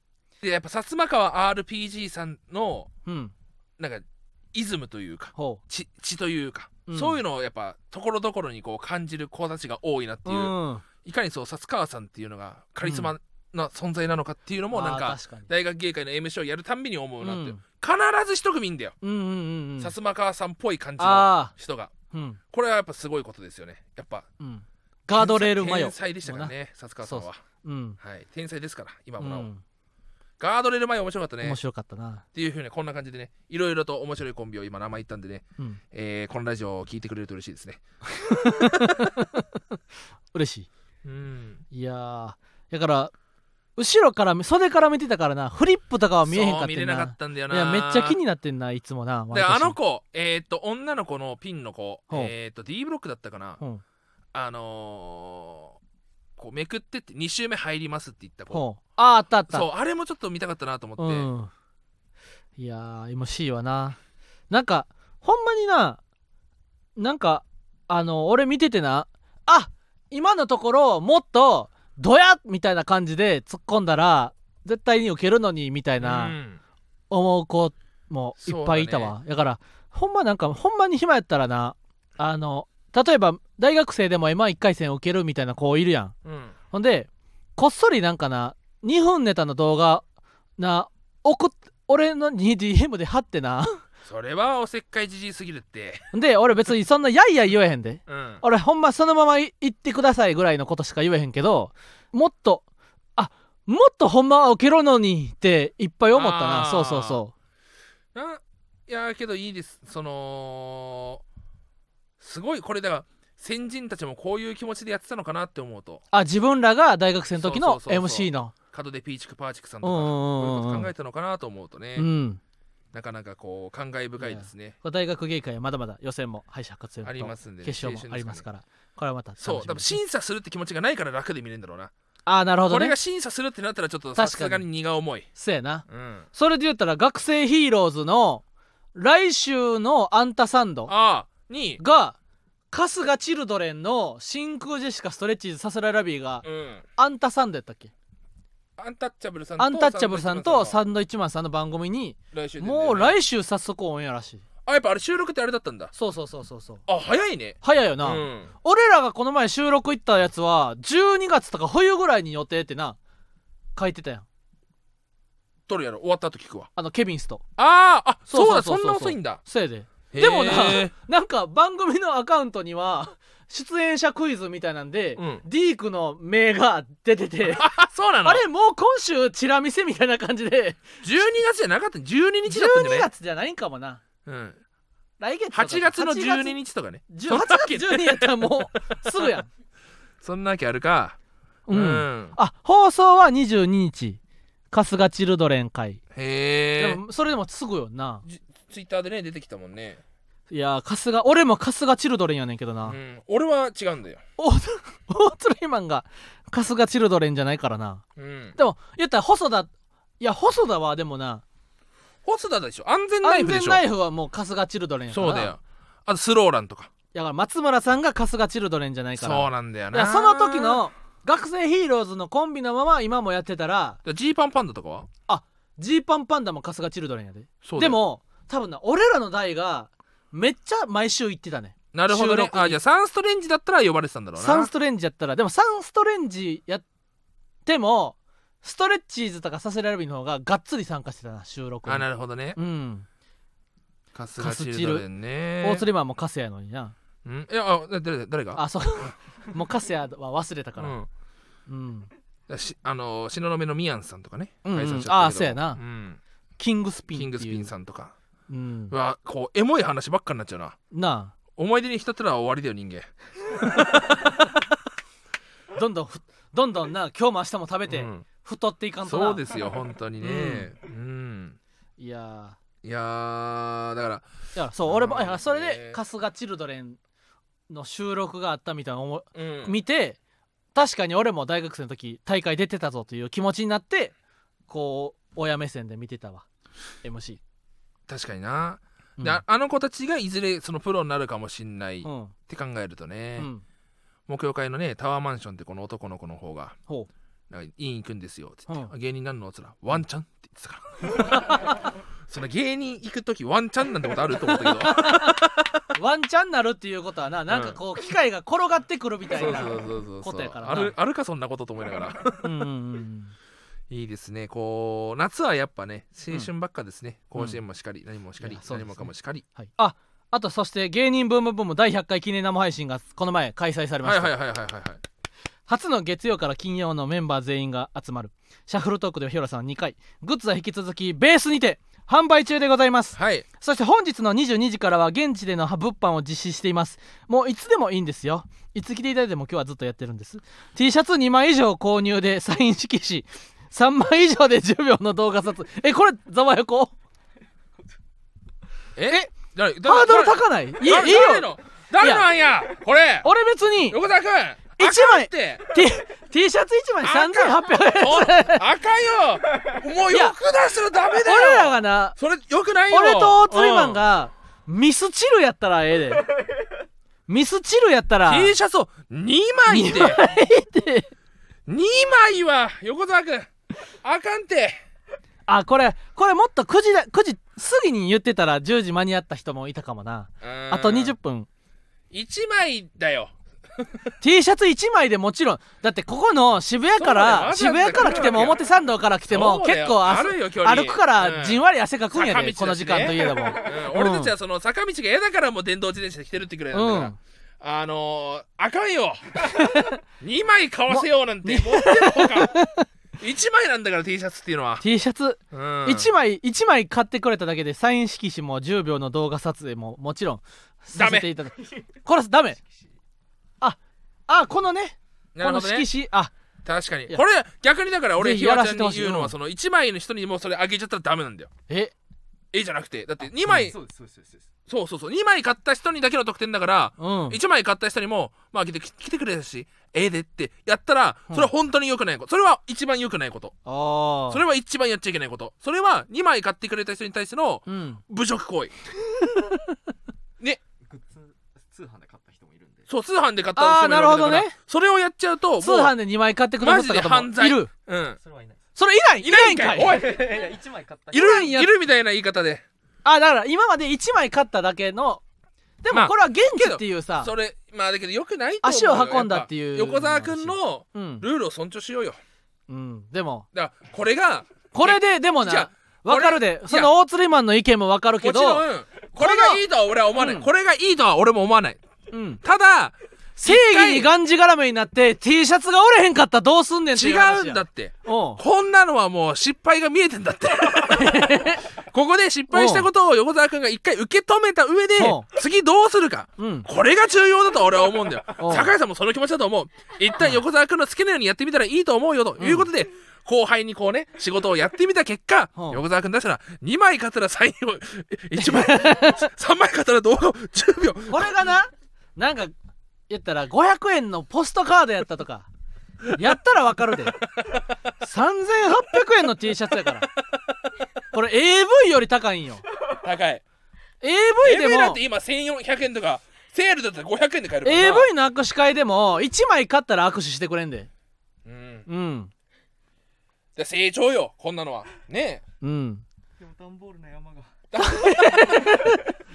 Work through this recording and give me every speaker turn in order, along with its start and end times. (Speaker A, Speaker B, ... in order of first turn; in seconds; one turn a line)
Speaker A: 0.4-2.9
Speaker B: 3.1-3.3
Speaker A: 3.8-19.0
Speaker B: 5.4-5.6
Speaker B: 6.9-7.2
Speaker B: 10.3-10.8
Speaker B: 12.8-13.1
Speaker B: 14.7-15.5
Speaker B: 17.2-17.6
Speaker B: 19.0-19.9
Speaker A: 19.8-21.9
Speaker B: 21.0-21.5
Speaker B: 22.1-22.4
Speaker A: 22.5-24.3
Speaker B: 24.4-28.0
Speaker A: 25.1-27.4
Speaker A: 28.0-29.5
Speaker B: 29.2-29.6
Speaker A: 30.4-31.6
Speaker B: 31.4-32.2
Speaker A: 32.3-39.1
Speaker B: 38.3-39.5
Speaker B: 40.3-40.7
Speaker A: 41.0-41.6
Speaker B: 41.7-43.1
Speaker B: 43.8-49.8
Speaker A: 46.2-48.2
Speaker A: 49.3-53.6
Speaker A: 54.3-55.8
Speaker A: 56.4-58.6
Speaker B: 58.5-59.7
Speaker A: 59.5-61.3
Speaker B: 61.0-61.5
Speaker B: 62.6-64.0
Speaker B: 64.5-66.0
Speaker B: 67.0-76.4
Speaker A: 76.0-76.6
Speaker B: 77.1-86.1
Speaker A: 78.4-79.2
Speaker A: 86.2-86.5
Speaker B: 86.7-90.0
Speaker B: 90.6-93.8
Speaker A: 94.0-96.1
Speaker B: 96.1-102.7
Speaker A: 98.1-98.4
Speaker B: 103.2-107.3
Speaker A: 106.1-107.2
Speaker A: 108.1-111.2
Speaker A: 112.2-116.0
Speaker B: 116.1-118.5
Speaker A: 117.4-122.1
Speaker B: 119.8-120.9
Speaker B: 122.0-122.4
Speaker A: 122.9-124.8
Speaker B: 124.2-130.0
Speaker A: 127.0-128.4
Speaker A: 129.4-131.9
Speaker B: 132.3-133.0
Speaker A: 132.7-135.3
Speaker B: 134.2-134.7
Speaker B: 135.4-138.4
Speaker A: 135.9-136.3
Speaker B: 138.9-140.9
Speaker A: 140.9-141.8
Speaker B: 141.8-142.2
Speaker B: 142.7-146.4
Speaker A: 146.4-146.8
Speaker B: 147.0-147.9
Speaker A: 148.8-150.8
Speaker B: 149.6-154.4
Speaker A: 152.3-153.2
Speaker A: 154.7-155.9
Speaker B: 155.9-156.8
Speaker A: 156.9-158.5
Speaker B: 157.6-163.0
Speaker B: 163.8-164.3
Speaker A: 165.7-166.7
Speaker B: 166.8-167.4
Speaker A: 167.6-169.4
Speaker B: 168.3-177.7
Speaker A: 170.1-170.9
Speaker A: 175.2-175.4
Speaker A: 177.5-178.4
Speaker B: 178.2-180.8
Speaker A: 181.0-183.1
Speaker B: 182.5-184.0
Speaker A: 184.2-184.6
Speaker B: 185.2-189.5
Speaker A: 185.5-188.6
Speaker A: 190.2-191.2
Speaker B: 191.7-194.2
Speaker A: 191.7-192.3
Speaker B: 194.7-196.0
Speaker A: 196.1-197.0
Speaker B: 196.8-198.2
Speaker A: 198.3-200.0
Speaker B: 200.5-203.0
Speaker A: 202.9-204.2
Speaker B: 204.4-208.0
Speaker A: 208.2-208.6
Speaker B: 208.6-211.4
Speaker A: 212.2-213.8
Speaker B: 213.2-215.5
Speaker A: 215.1-216.9
Speaker B: 217.1-224.0
Speaker A: 219.2-220.8
Speaker A: 224.1-225.1
Speaker B: 225.3-232.8
Speaker A: 227.6-228.0
Speaker A: 231.9-234.7
Speaker B: 234.4-236.8
Speaker B: 237.7-243.1
Speaker A: 241.9-242.6
Speaker A: 244.1-245.9
Speaker B: 244.4-245.1
Speaker B: 245.6-246.9
Speaker A: 247.2-248.6
Speaker B: 248.6-251.0
Speaker A: 250.8-251.1
Speaker B: 251.7-252.1
Speaker A: 252.5-256.2
Speaker B: 254.7-255.8
Speaker B: 256.6-257.7
Speaker A: 257.1-258.1
Speaker B: 258.5-258.9
Speaker A: 258.9-260.8
Speaker B: 260.9-261.3
Speaker A: 261.6-264.3
Speaker B: 263.8-264.4
Speaker B: 265.8-269.4
Speaker A: 267.9-268.3
Speaker A: 269.0-271.6
Speaker B: 270.2-270.7
Speaker B: 272.0-272.6
Speaker A: 272.8-274.3
Speaker B: 274.6-277.0
Speaker A: 274.9-276.0
Speaker B: 277.7-280.2
Speaker A: 279.4-279.8
Speaker B: 280.8-284.1
Speaker B: 284.7-286.4
Speaker B: 287.0-287.4
Speaker A: 288.1-293.5
Speaker B: 292.0-292.3
Speaker B: 293.4-293.6
Speaker A: 294.3-296.8
Speaker A: 297.5-305.8
Speaker B: 301.1-301.8
Speaker B: 304.5-310.9
Speaker A: 307.5-307.8
Speaker A: 309.3-312.6
Speaker B: 312.4-313.3
Speaker A: 313.9-319.4
Speaker B: 318.4-324.3
Speaker A: 324.0-325.0
Speaker B: 325.7-346.9
Speaker A: 333.2-333.4
Speaker A: 349.0-353.3
Speaker B: 349.8-351.5
Speaker B: 352.0-352.3
Speaker B: 353.2-354.0
Speaker A: 353.9-355.7
Speaker B: 354.8-358.6
Speaker A: 357.0-364.0
Speaker B: 360.1-360.4
Speaker B: 361.2-362.2
Speaker B: 362.9-366.3
Speaker B: 367.3-368.5
Speaker A: 368.3-370.2
Speaker B: 369.7-371.1
Speaker A: 371.7-373.5
Speaker A: 374.0-374.8
Speaker B: 375.5-381.5
Speaker A: 380.4-381.1
Speaker A: 382.1-384.1
Speaker B: 384.2-394.3
Speaker A: 387.0-388.6
Speaker A: 389.3-402.6
Speaker B: 396.7-397.2
Speaker B: 399.5-400.0
Speaker B: 400.9-402.9
Speaker A: 403.2-404.9
Speaker B: 404.8-412.6
Speaker A: 405.5-406.1
Speaker A: 410.9-411.3
Speaker B: 413.6-416.3
Speaker A: 415.4-415.9
Speaker A: 416.6-421.5
Speaker B: 418.2-419.3
Speaker B: 421.7-421.9
Speaker A: 422.5-423.8
Speaker C: 423.4-424.5
Speaker A: 424.7-433.6
Speaker B: 427.0-427.4
Speaker B: 433.7-434.4
Speaker A: 434.3-438.7
Speaker B: 437.7-438.0
Speaker B: 439.1-439.8
Speaker C: 440.8-442.9
Speaker A: 442.9-445.9
Speaker B: 443.6-444.6
Speaker B: 445.6-447.7
Speaker A: 446.6-448.2
Speaker C: 448.2-448.6
Speaker B: 448.8-450.0
Speaker A: 449.2-450.2
Speaker C: 449.6-451.5
Speaker A: 451.1-452.6
Speaker B: 451.1-451.7
Speaker B: 453.1-455.2
Speaker B: 455.8-457.3
Speaker A: 455.9-462.2
Speaker B: 458.6-461.2
Speaker B: 462.7-463.5
Speaker A: 463.5-466.9
Speaker B: 464.7-468.6
Speaker A: 468.2-471.8
Speaker B: 469.1-469.6
Speaker B: 470.2-470.5
Speaker B: 472.1-472.4
Speaker A: 472.4-474.1
Speaker B: 473.4-478.4
Speaker A: 476.9-501.4
Speaker B: 480.9-481.7
Speaker B: 482.5-482.9
Speaker B: 485.0-485.3
Speaker B: 486.4-486.7
Speaker B: 488.4-488.7
Speaker B: 492.4-492.7
Speaker B: 495.6-495.8
Speaker B: 498.4-499.3
Speaker B: 501.1-502.5
Speaker B: 503.1-505.5
Speaker B: 506.1-507.2
Speaker A: 507.2-507.7
Speaker B: 508.0-510.1
Speaker B: 511.1-512.6
Speaker A: 513.0-513.4
Speaker B: 514.0-515.0
Speaker A: 514.4-518.1
Speaker B: 517.6-520.9
Speaker A: 521.5-521.9
Speaker B: 521.9-522.3
Speaker A: 523.6-525.4
Speaker B: 525.6-526.0
Speaker C: 526.4-527.6
Speaker A: 527.7-528.9
Speaker B: 527.8-529.1